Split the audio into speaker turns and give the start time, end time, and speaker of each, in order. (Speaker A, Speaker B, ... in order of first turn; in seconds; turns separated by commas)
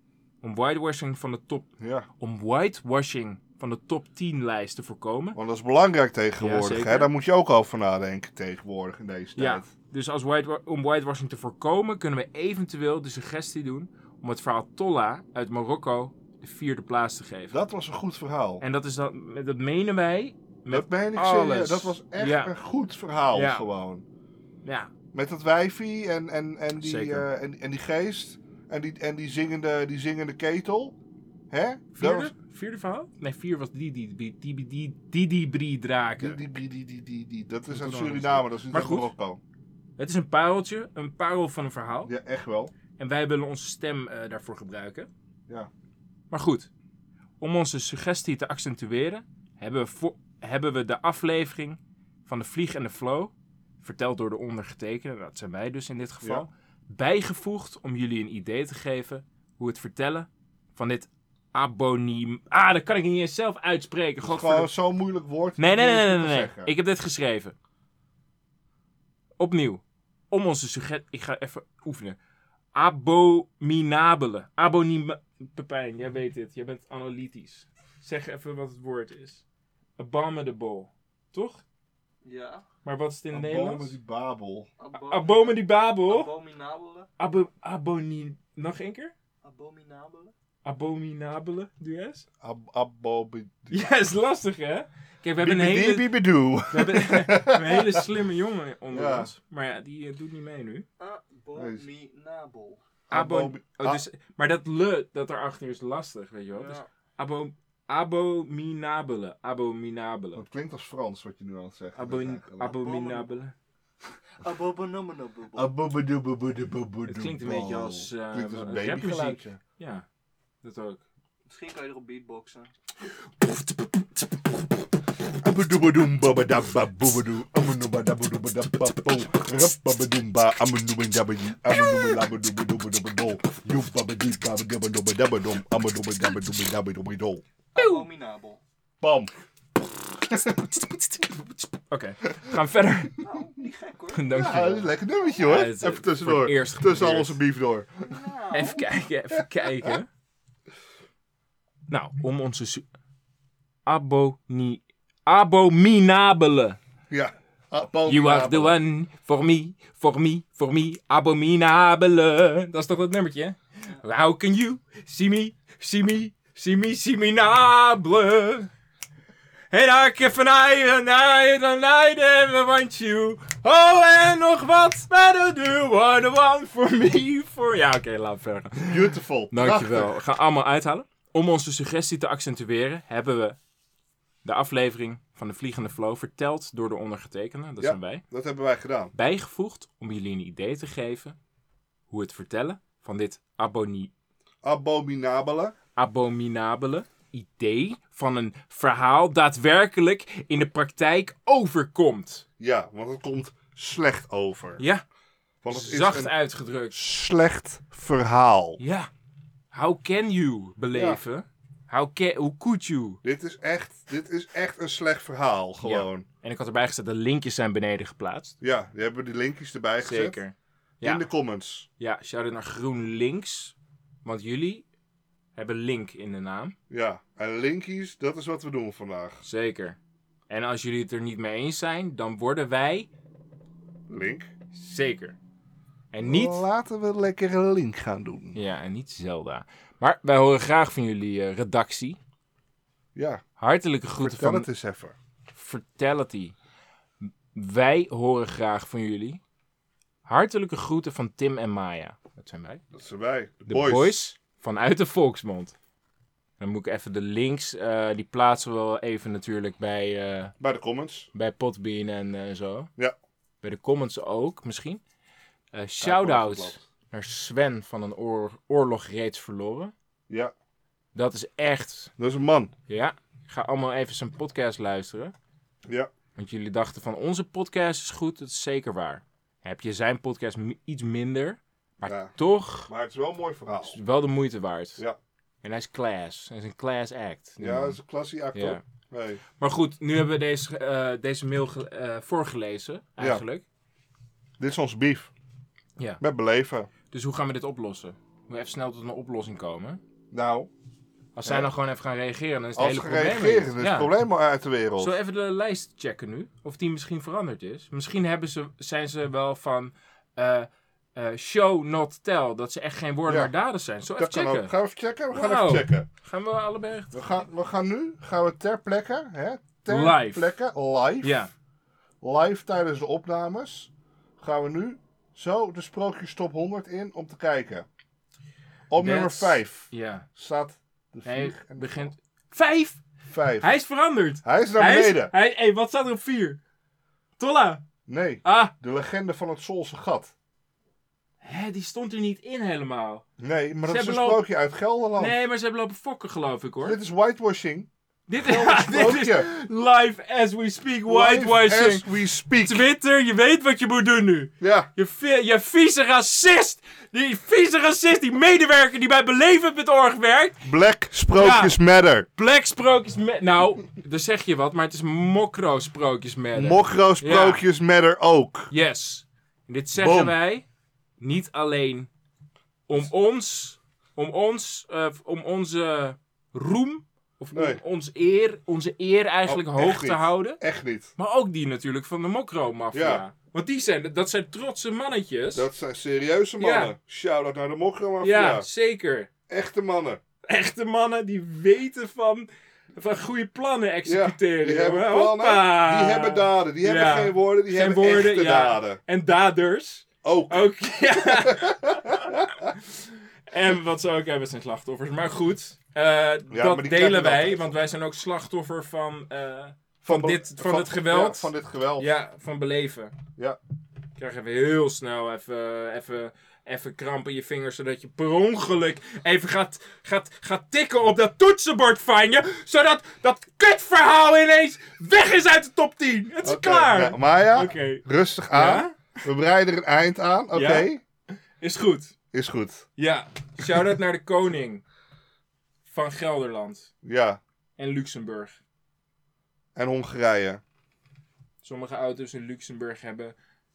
Speaker A: 0.4-1.7, Speaker B: 1.8-2.1, Speaker A: 2.2-5.4, Speaker B: 5.3-9.7, Speaker A: 6.4-7.1, Speaker A: 9.3-17.6, Speaker B: 17.5-18.6, Speaker A: 18.6-22.5, Speaker B: 20.7-24.0, Speaker A: 23.3-23.6, Speaker A: 24.6-24.9, Speaker B: 25.1-30.9, Speaker A: 26.8-27.3, Speaker B: 31.5-32.3, Speaker A: 31.9-36.4, Speaker B: 36.2-39.4, Speaker A: 37.7-39.1, Speaker A: 40.0-42.1, Speaker B: 42.1-42.7, Speaker A: 43.0-45.1, Speaker A: 46.3-46.7, Speaker A: 47.4-64.7, Speaker B: 64.2-66.7, Speaker A: 65.6-67.5, Speaker A: 69.4-72.2, Speaker A: 72.7-79.4, Speaker A: 80.0-81.6, Speaker C: 82.2-82.6, Speaker A: 82.8-84.0, Speaker B: 83.3-84.7, Speaker C: 84.8-87.1, Speaker A: 84.9-86.3, Speaker A: 87.2-89.1, Speaker C: 89.4-90.3, Speaker A: 90.6-92.2, Speaker B: 92.4-93.9, Speaker A: 93.7-96.1, Speaker B: 95.4-98.0, Speaker A: 96.7-100.8, Speaker B: 98.9-99.3, Speaker C: 101.0-102.8, Speaker B: 101.5-101.8, Speaker B: 103.1-104.0, Speaker A: 103.1-110.4, Speaker C: 106.5-106.9, Speaker B: 110.3-112.7, Speaker A: 112.0-113.5, Speaker C: 112.5-113.3, Speaker C: 114.4-115.7, Speaker B: 115.5-119.6, Speaker A: 117.1-120.0, Speaker A: 120.6-121.0, Speaker C: 121.5-122.7, Speaker A: 123.0-124.5, Speaker B: 125.4-137.4, Speaker C: 137.7-138.6, Speaker A: 137.8-138.1, Speaker B: 139.0-139.3, Speaker B: 140.3-140.6, Speaker A: 140.4-143.2, Speaker C: 143.2-144.7, Speaker A: 144.1-147.4, Speaker B: 144.3-147.9, Speaker C: 148.0-148.9, Speaker A: 148.5-150.1, Speaker B: 149.4-149.9, Speaker A: 151.9-152.9, Speaker A: 153.8-156.8, Speaker B: 157.1-158.8, Speaker A: 158.1-168.7, Speaker A: 169.7-183.6, Speaker B: 178.8-180.2, Speaker A: 184.4-188.2, Speaker B: 187.8-189.1, Speaker A: 189.1-191.3, Speaker A: 192.1-194.1, Speaker B: 194.6-195.7, Speaker A: 195.9-202.4, Speaker B: 202.6-204.8, Speaker A: 204.8-205.0, Speaker B: 205.6-206.3, Speaker A: 205.7-207.0, Speaker B: 206.9-208.8, Speaker A: 208.8-209.1, Speaker A: 209.7-213.2, Speaker B: 210.9-211.2, Speaker B: 213.2-216.2, Speaker A: 215.8-218.6, Speaker B: 218.6-220.4, Speaker A: 220.0-221.3, Speaker B: 221.0-221.9, Speaker A: 222.0-224.8, Speaker A: 225.6-226.8, Speaker B: 226.9-229.4, Speaker A: 229.4-230.0, Speaker A: 230.5-233.1, Speaker B: 234.1-234.5, Speaker A: 234.7-235.4, Speaker A: 236.1-236.7, Speaker B: 236.2-238.6, Speaker A: 238.5-242.2, Speaker B: 243.2-243.4, Speaker A: 243.6-244.7, Speaker B: 244.2-245.1, Speaker A: 245.5-246.5, Speaker A: 247.5-249.4, Speaker A: 250.2-252.8, Speaker B: 252.9-254.2, Speaker A: 253.7-255.7, Speaker A: 256.6-260.5, Speaker B: 260.6-261.3, Speaker A: 261.3-262.9, Speaker A: 263.6-265.0, Speaker A: 265.7-269.9, Speaker B: 266.0-266.8, Speaker A: 271.1-272.1, Speaker B: 272.2-272.7, Speaker A: 272.9-275.3, Speaker A: 276.4-282.9, Speaker B: 282.1-282.3, Speaker B: 282.9-284.0, Speaker A: 283.8-285.0, Speaker A: 285.6-288.0, Speaker B: 287.6-289.4, Speaker A: 288.5-288.8, Speaker A: 289.6-293.6, Speaker B: 293.2-293.4, Speaker B: 294.6-295.3, Speaker B: 296.2-296.9, Speaker A: 297.1-300.0, Speaker B: 300.3-300.7, Speaker A: 301.4-304.1, Speaker B: 301.4-301.7, Speaker B: 302.8-305.1, Speaker A: 305.0-314.7, Speaker B: 313.3-313.5, Speaker B: 314.2-316.1, Speaker A: 315.3-317.2, Speaker B: 317.1-321.4, Speaker A: 319.9-320.5, Speaker A: 321.2-321.5, Speaker B: 322.2-327.9, Speaker B: 328.9-332.0, Speaker A: 329.0-330.2, Speaker A: 331.2-333.0, Speaker B: 333.3-333.7, Speaker A: 333.6-336.6, Speaker B: 334.4-335.3, Speaker A: 337.4-337.8, Speaker B: 338.1-340.3, Speaker A: 338.4-338.7, Speaker A: 341.4-343.2, Speaker B: 343.4-345.4, Speaker A: 343.8-344.4, Speaker A: 345.2-347.0, Speaker B: 346.8-349.5, Speaker A: 348.3-360.6, Speaker B: 351.1-352.9, Speaker B: 354.6-354.9, Speaker B: 360.6-362.3, Speaker A: 361.3-361.8, Speaker A: 362.3-367.6, Speaker B: 366.5-368.7, Speaker A: 368.7-370.6, Speaker B: 370.0-370.4, Speaker A: 371.2-372.1, Speaker A: 372.9-380.6, Speaker B: 377.5-377.8, Speaker B: 379.4-381.1, Speaker A: 381.1-385.7, Speaker B: 382.9-383.2, Speaker B: 385.5-388.7, Speaker A: 386.6-386.9, Speaker A: 388.2-389.3, Speaker B: 389.5-390.2, Speaker A: 390.5-413.1, Speaker B: 394.0-399.0, Speaker B: 400.2-402.5, Speaker B: 406.5-407.7, Speaker B: 410.0-412.1, Speaker A: 414.1-429.0, Speaker B: 426.4-431.0, Speaker A: 430.5-430.9, Speaker A: 431.6-432.1, Speaker B: 432.3-432.9, Speaker A: 433.0-434.8, Speaker A: 435.9-436.9, Speaker B: 437.0-437.4, Speaker A: 437.8-438.6, Speaker B: 439.8-440.6, Speaker A: 441.6-443.3